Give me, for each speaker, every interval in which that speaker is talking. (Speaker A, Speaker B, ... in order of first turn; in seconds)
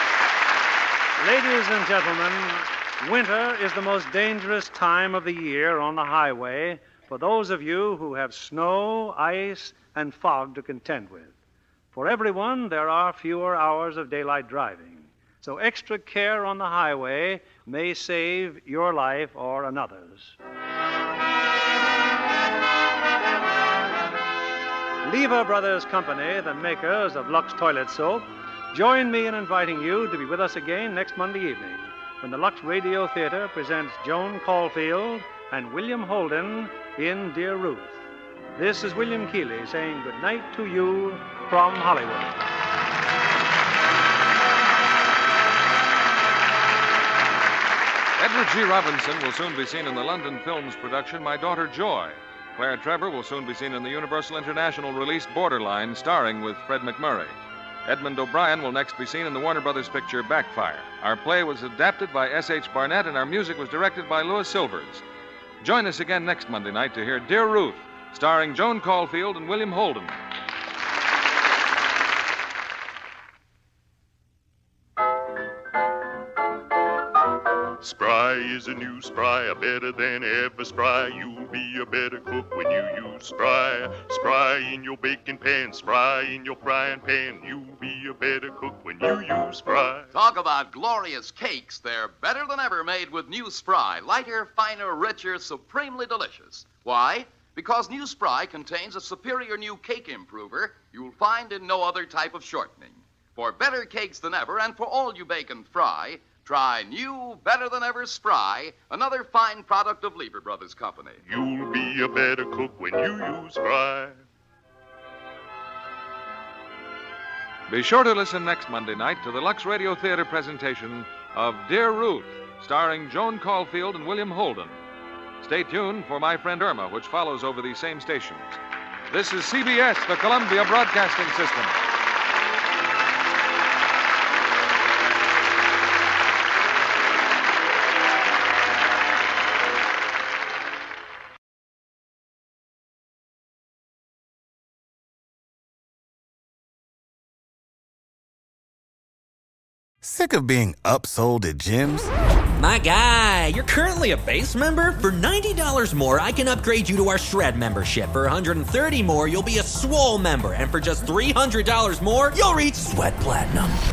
Speaker A: 1.2-11.3, 11.9-20.4, 25.0-38.0, 38.6-42.4
Speaker B: 48.2-57.4, 57.9-65.0, 65.6-70.2, 117.7-124.8, 125.4-128.6, 129.1-131.8
Speaker C: 77.8-90.1, 111.2-114.2
Speaker D: 90.1-111.2
Speaker E: 150.0-152.1
Speaker F: 152.6-163.8